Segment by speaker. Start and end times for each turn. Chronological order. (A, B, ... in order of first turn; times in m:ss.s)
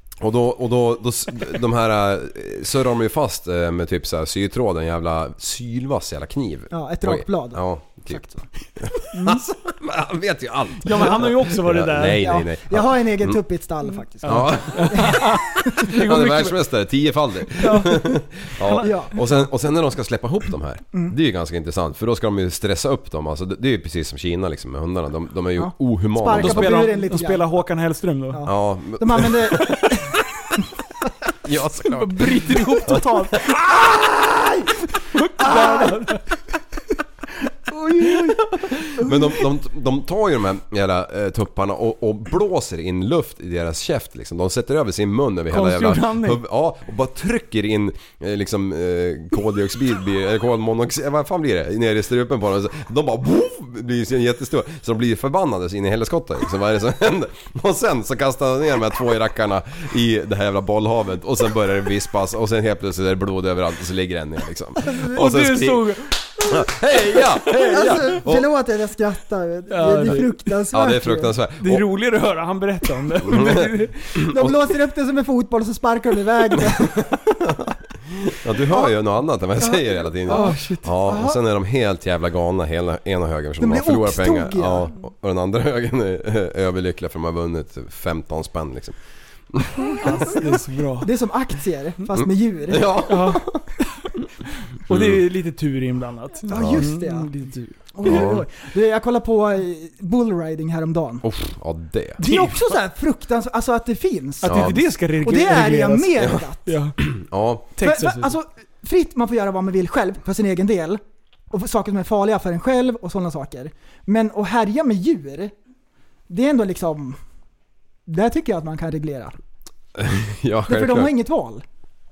0:00.2-0:13.4 A
0:06.7-0:08.4 B
0:09.1-0:09.4 C
0:10.8-0:12.3 C
0:12.2-0:15.3 B
0:14.2-0:16.6 C
0:14.2-0:26.9 A
0:17.6-0:18.9 C
0:18.8-0:19.3 B
0:25.6-0:27.5 B
0:26.3-0:28.4 C
0:28.3-0:30.2 B
0:28.4-0:29.9 A
0:31.4-0:33.8 A
0:31.8-0:33.5 C
0:33.7-0:34.6 B
0:35.1-0:36.2 C
0:35.4-0:36.0 B
0:37.7-0:39.3 B
0:38.5-1:08.5 A
0:45.5-0:46.4 C
1:05.1-1:06.4 C
1:07.4-1:08.0 C
1:07.6-1:11.3 B
1:09.7-1:10.4 C
1:10.7-1:11.8 A
1:11.6-1:14.2 C
1:13.2-1:14.6 A
1:14.2-1:17.2 B
1:16.6-1:17.1 A
1:18.2-1:29.0 A
1:18.7-1:18.9 B
1:19.6-1:21.4 B
1:20.3-1:20.9 C
1:23.6-1:24.9 B
1:29.5-1:30.3 A
1:29.8-1:33.0 B
1:30.0-1:31.1 C
1:32.2-1:33.7 A
1:33.0-1:33.4 C
1:34.7-1:38.3 C
1:34.9-1:35.2 A
1:36.5-1:37.3 B
1:36.5-1:36.9 A
1:37.9-1:41.2 B
1:38.0-1:38.4 A
1:41.2-1:42.2 A
1:42.2-1:42.6 C
1:42.2-1:46.7 B
1:44.4-1:47.0 C
1:44.4-1:44.8 A
1:47.0-1:47.7 A
1:47.7-1:48.3 C
1:47.8-1:51.0 B
1:51.5-1:55.5 B
1:56.3-1:57.2 B
1:58.1-1:59.4 B
2:00.0-2:01.1 A
2:00.7-2:01.6 B